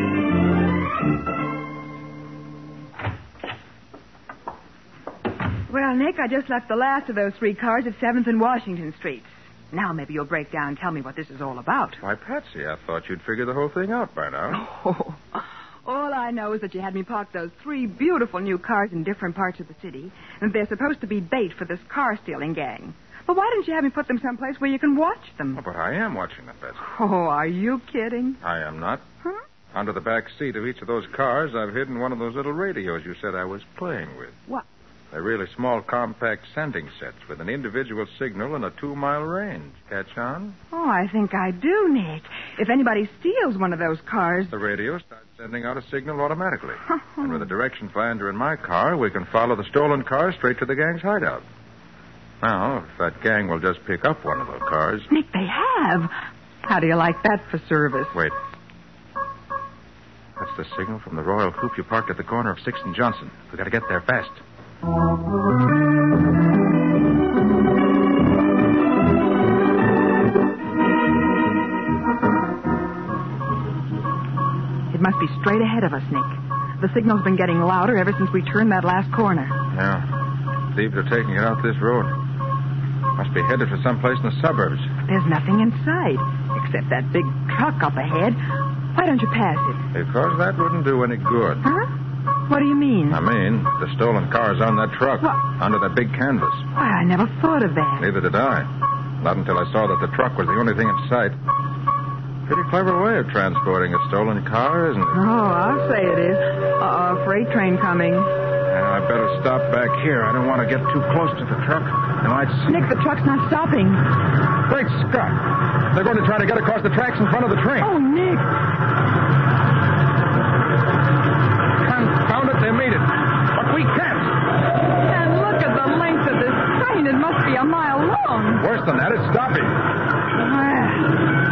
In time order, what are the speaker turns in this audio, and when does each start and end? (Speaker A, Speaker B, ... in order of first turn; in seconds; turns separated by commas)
Speaker A: 5.7-12.0, Speaker B: 12.0-14.6, Speaker A: 14.5-25.6, Speaker B: 25.5-26.8, Speaker A: 26.8-28.4, Speaker B: 28.4-29.0, Speaker B: 29.7-34.4, Speaker B: 35.1-40.6, Speaker A: 40.7-44.5, Speaker B: 44.5-51.4, Speaker B: 52.4-55.1, Speaker A: 55.1-58.1, Speaker B: 60.4-64.4, Speaker A: 74.9-79.5, Speaker B: 79.7-80.1, Speaker B: 80.7-82.1, Speaker B: 83.2-84.9, Speaker A: 85.0-88.4, Speaker A: 88.9-89.8, Speaker B: 89.9-91.6, Speaker A: 91.6-91.9, Speaker A: 92.5-93.2, Speaker B: 93.1-96.7, Speaker A: 96.7-98.0, Speaker B: 98.0-101.4, Speaker B: 102.5-105.2, Speaker A: 105.1-108.3, Speaker B: 108.7-112.9, Speaker A: 112.7-114.0, Speaker B: 114.6-117.9, Speaker A: 117.8-118.5, Speaker B: 121.8-124.4, Speaker A: 125.0-128.6, Speaker B: 128.6-129.8, Speaker A: 130.4-131.0